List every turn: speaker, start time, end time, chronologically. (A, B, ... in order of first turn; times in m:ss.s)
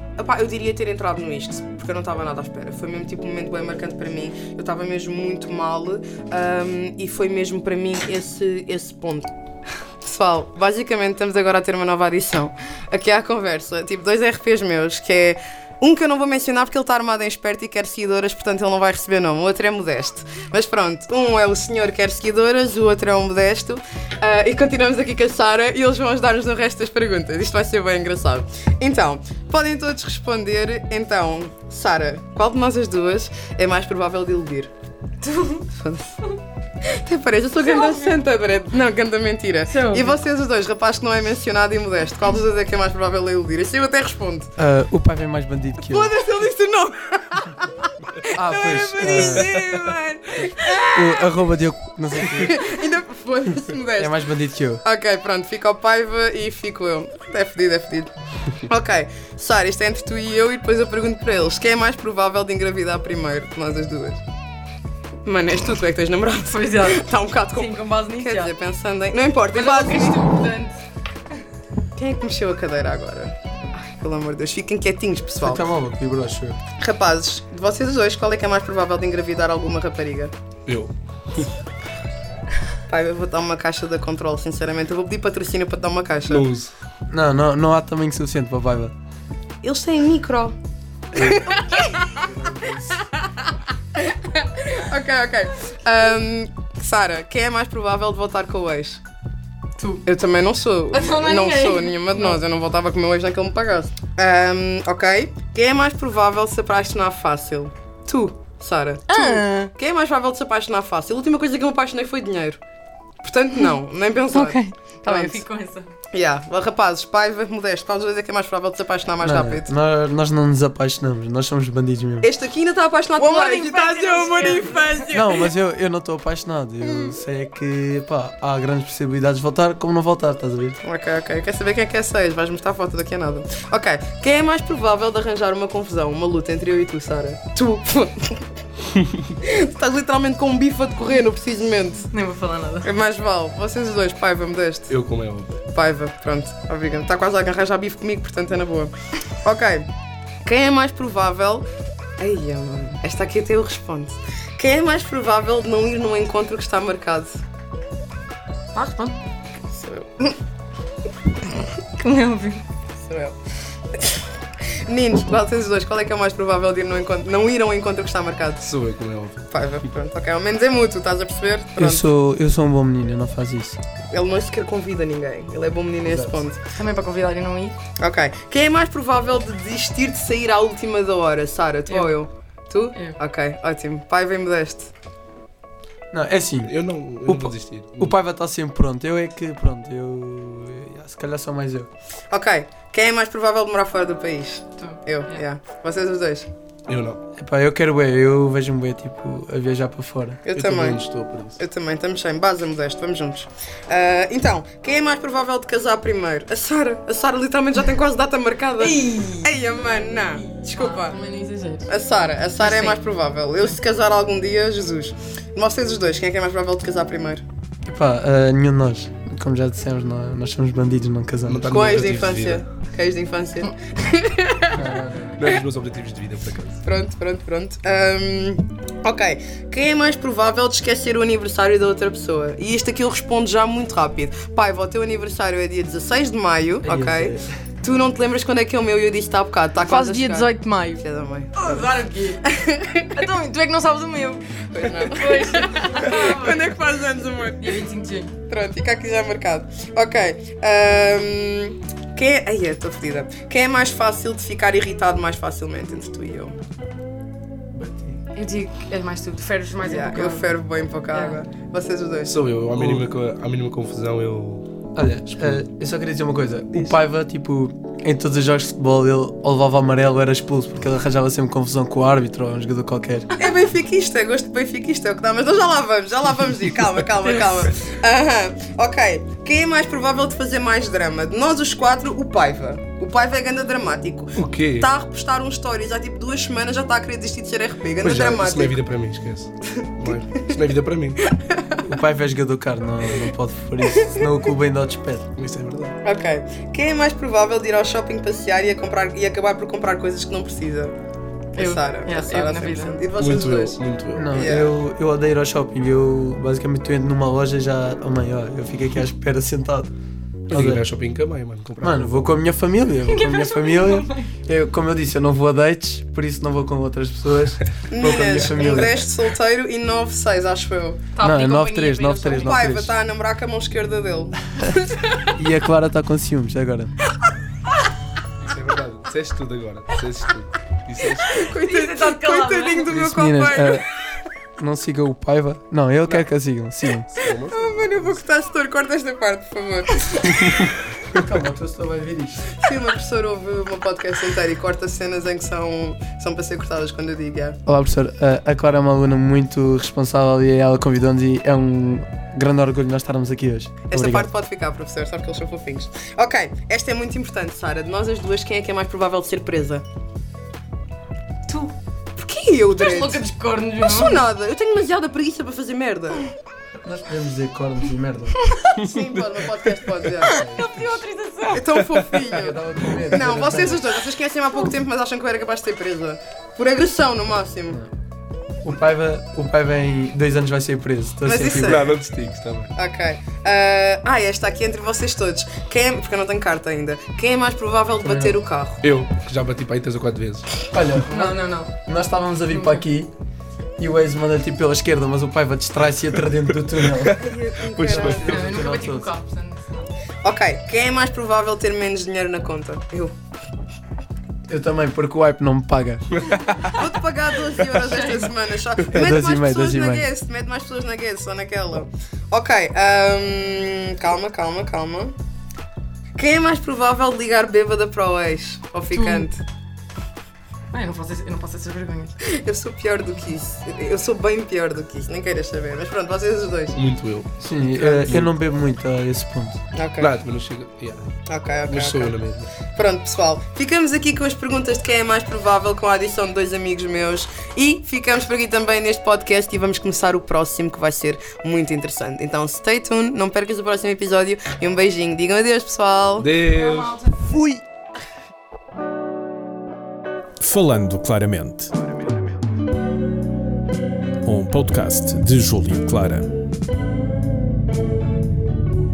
0:00.2-0:09.3 A
0:10.0-0:34.7 A
0:35.2-0:35.6 B
0:35.7-0:36.1 A
0:36.8-0:44.5 A
0:37.6-0:38.2 B
0:39.7-0:40.2 B
0:44.6-0:46.1 C
0:45.9-0:51.2 A
0:48.3-0:49.7 C
0:50.9-0:52.5 C
0:52.2-0:54.2 A
0:54.0-0:54.8 C
0:54.8-0:58.1 A
0:58.7-1:04.2 A
1:05.2-1:10.3 A
1:06.5-1:08.5 B
1:09.5-1:10.8 B
1:12.0-1:15.6 A
1:15.4-1:16.6 C
1:16.8-1:20.3 A
1:20.7-1:21.5 D
1:22.9-1:26.5 A
1:26.3-1:26.7 D
1:27.1-1:28.9 C
1:29.6-1:30.6 A
1:31.1-1:33.2 A
1:32.2-1:32.9 C
1:34.3-1:39.0 A
1:39.8-1:40.0 B
1:40.1-1:52.6 A
1:40.9-1:42.4 B
1:49.1-1:49.7 B
1:53.2-1:55.4 A
1:54.3-1:55.9 B
1:56.1-1:59.7 A
1:59.2-2:02.3 C
2:02.2-2:05.5 A
2:03.2-2:05.1 B
2:05.1-2:10.8 C
2:10.8-2:18.4 A
2:19.4-2:22.1 A
2:22.1-2:22.9 B
2:22.8-2:24.9 A
2:24.9-2:25.6 D
2:25.7-2:28.9 A
2:29.4-2:29.9 A
2:30.4-2:31.7 A
2:32.2-2:37.4 A
2:38.7-2:39.2 B
2:39.7-2:40.4 A
2:42.0-2:42.6 B
2:43.0-2:43.4 A
2:44.9-2:48.7 A
2:48.6-2:49.5 D
2:49.5-2:52.1 A
2:51.8-2:53.8 C
2:54.1-2:56.6 A
2:56.1-2:56.3 C
2:56.7-2:57.8 B
2:58.0-3:04.9 A
3:01.9-3:02.2 B
3:06.1-3:06.7 C
3:06.6-3:08.1 D
3:07.3-3:11.9 C
3:12.3-3:16.5 A
3:14.8-3:15.4 B
3:16.9-3:17.2 D
3:17.4-3:20.4 C
3:20.5-3:21.0 A
3:20.5-3:21.6 D
3:21.6-3:31.2 A
3:28.8-3:29.6 B
3:30.3-3:31.9 B
3:31.9-3:37.4 A
3:32.6-3:33.0 B
3:37.9-3:41.6 C
3:41.5-3:42.7 D
3:41.7-3:44.9 A
3:44.7-3:45.4 C
3:45.4-3:46.8 D
3:46.8-4:01.9 A
3:56.8-3:57.5 C
3:59.8-4:01.0 B
4:01.6-4:02.5 B
4:02.5-4:03.1 A
4:03.2-4:06.8 B
4:04.7-4:07.8 A
4:07.6-4:08.3 B
4:08.5-4:16.6 A
4:17.8-4:18.2 C
4:18.4-4:20.5 B
4:19.8-4:22.4 A
4:21.1-4:21.4 B
4:22.2-4:24.7 D
4:22.8-4:23.0 C
4:24.9-4:33.3 C
4:25.3-4:25.6 D
4:33.4-4:48.8 A
4:37.2-4:37.7 B
4:44.4-4:44.9 D
4:48.0-4:51.2 D
4:49.6-4:50.5 A
4:51.5-4:51.8 A
4:51.9-4:55.2 C
4:53.9-4:54.2 A
4:55.4-4:56.0 D
4:56.0-5:01.0 A
5:01.5-5:04.7 A
5:01.6-5:03.0 B
5:03.2-5:04.3 D
5:04.2-5:09.9 C
5:10.5-5:12.4 D
5:10.5-5:10.8 C
5:11.8-5:19.0 C
5:13.1-5:14.3 B
5:17.9-5:21.1 A
5:18.6-5:18.9 B
5:21.1-5:22.5 B
5:21.2-5:22.9 C
5:22.3-5:25.2 A
5:25.4-5:26.9 C
5:28.5-5:31.4 D
5:31.3-5:33.8 A
5:31.6-5:32.9 B
5:32.9-5:33.9 C
5:34.6-5:37.1 C
5:37.2-5:38.0 D
5:37.5-5:40.5 A
5:41.2-5:42.4 C
5:42.6-5:47.6 A
5:47.7-5:54.3 C
5:53.9-5:59.8 A
6:01.5-6:01.7 B
6:02.2-6:03.2 A
6:02.8-6:04.2 B
6:03.8-6:06.2 A
6:06.8-6:08.4 C
6:08.8-6:10.3 A
6:08.8-6:09.2 D
6:10.2-6:11.8 B
6:10.3-6:10.9 C
6:11.5-6:17.8 A
6:12.3-6:13.8 C
6:18.6-6:21.9 C
6:21.2-6:21.9 A
6:21.6-6:22.7 D
6:22.8-6:28.8 A
6:28.0-6:28.4 C
6:28.8-6:30.5 D
6:30.7-6:33.1 C
6:31.1-6:31.7 B
6:32.5-6:32.8 B
6:33.8-6:37.2 C
6:37.2-6:38.5 A
6:37.7-6:38.5 D
6:37.8-6:39.1 C
6:38.2-6:39.9 B
6:40.2-6:43.1 A
6:44.5-6:46.0 C
6:46.3-6:46.7 D
6:46.8-6:55.2 A
6:47.7-6:48.3 B
6:48.9-6:50.1 C
6:56.2-6:59.4 A
6:58.9-6:59.3 B
7:00.7-7:02.2 B
7:02.2-7:06.8 A
7:06.7-7:08.3 D
7:07.4-7:09.6 C
7:09.7-7:10.1 A
7:10.0-7:11.2 D
7:11.3-7:26.3 A
7:11.7-7:12.5 D
7:26.2-7:27.0 D
7:26.5-7:27.4 B
7:27.2-7:27.6 C
7:30.4-7:31.7 E
7:34.2-7:36.3 E